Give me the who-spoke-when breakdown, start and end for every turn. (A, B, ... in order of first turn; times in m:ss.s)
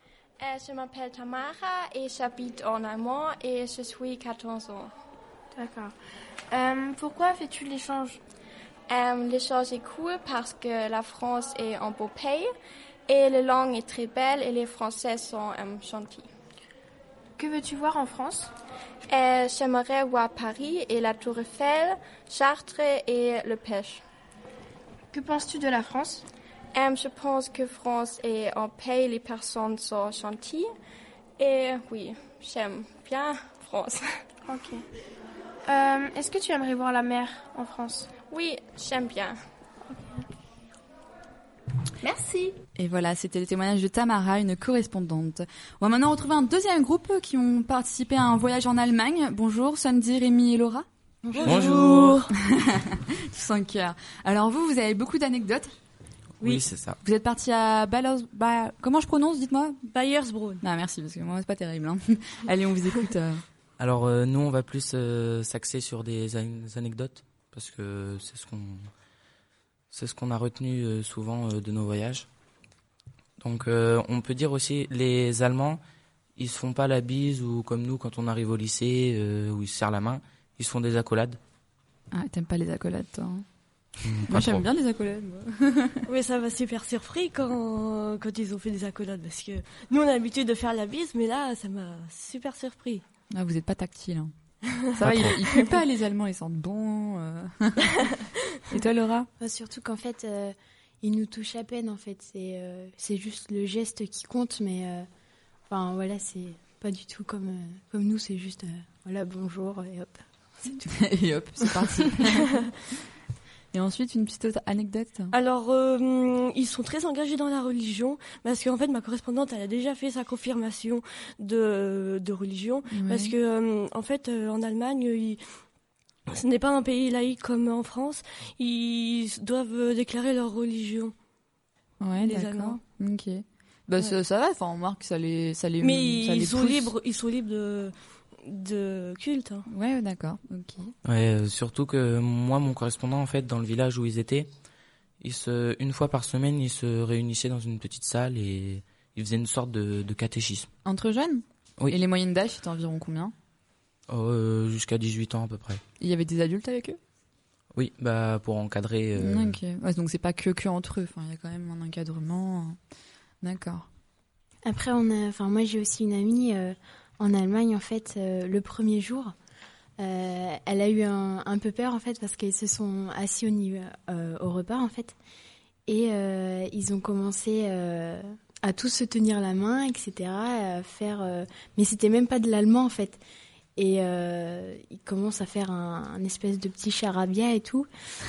0:00.4-0:04.9 A
0:05.6-0:05.9 B
0:06.5-0:08.2 B
0:08.9-0:12.5 A
0:13.1-0:16.3 A
0:17.4-0:18.5 B
0:19.1-0:24.0 A
0:25.1-0:26.3 B
0:26.7-0:30.7 A
0:31.4-0:34.0 A
0:34.4-0:34.8 B
0:35.7-0:38.1 B
0:38.2-0:39.4 A
0:39.9-0:40.2 B
0:42.0-0:42.5 B
0:42.8-0:50.9 C
0:51.3-0:52.0 D
0:51.3-0:52.3 E
0:51.4-0:52.2 F
0:52.3-0:55.7 C
0:56.4-0:57.0 F
0:57.0-0:59.9 C
1:00.1-1:00.6 E
1:00.6-1:03.4 C
1:03.8-1:08.9 F
1:09.9-1:12.3 F
1:13.4-1:15.8 F
1:16.4-1:21.4 F
1:22.1-1:23.4 C
1:24.0-1:24.6 F
1:24.3-1:26.1 C
1:26.1-1:33.0 E
1:33.3-1:34.3 C
1:34.9-1:35.6 E
1:34.9-1:38.1 C
1:38.7-1:39.3 C
1:39.4-1:45.1 D
1:45.7-1:50.9 D
1:50.9-1:52.5 C
1:53.7-1:55.4 C
1:55.3-2:05.4 E
2:02.9-2:03.3 C
2:06.3-2:11.1 E
2:12.0-2:16.9 C
2:12.2-2:12.8 E
2:15.8-2:19.7 E
2:19.7-2:20.9 C
2:21.0-2:24.5 F
2:25.2-2:30.7 F
2:30.8-2:33.3 C
2:34.1-2:35.8 F
2:36.0-2:37.0 C
2:37.8-2:39.6 F
2:39.2-2:42.8 C
2:43.4-2:43.9 C
2:44.6-2:49.3 D
2:50.0-2:55.2 D
2:55.9-3:03.2 D
3:03.8-3:07.9 D